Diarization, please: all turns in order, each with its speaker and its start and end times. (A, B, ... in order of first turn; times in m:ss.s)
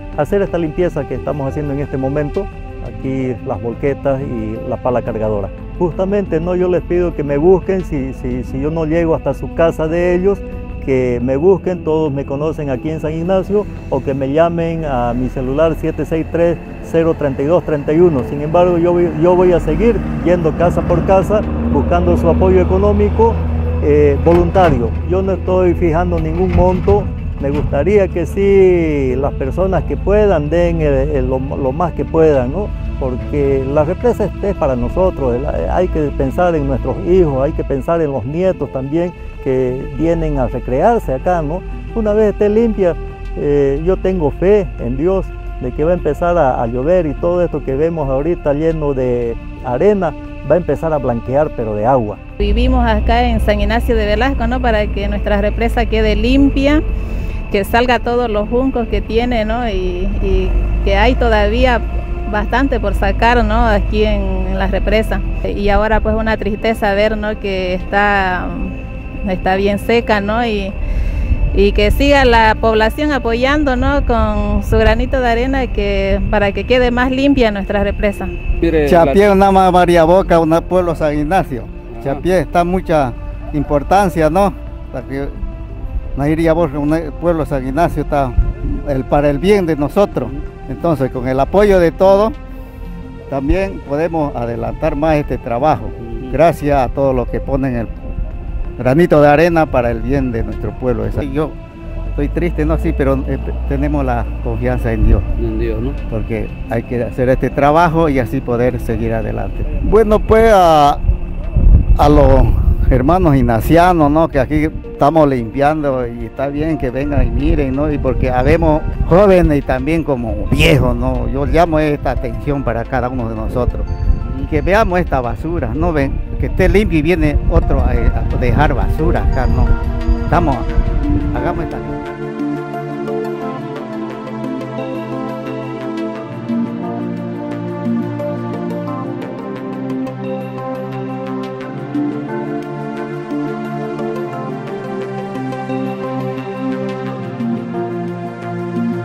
0:00.2-0:52.2 A
0:52.4-0:56.8 B
0:57.5-1:10.7 B
1:11.5-1:18.3 B
1:18.6-1:19.2 C
1:18.8-1:25.4 D
1:21.9-1:22.2 C
1:26.2-1:32.3 D
1:33.3-1:37.9 D
1:36.0-1:36.4 C
1:38.8-1:41.5 D
1:42.1-1:45.3 D
1:45.4-1:46.0 C
1:46.1-1:51.0 D
1:52.0-2:09.7 D
2:10.3-2:10.7 D
2:11.3-2:11.9 D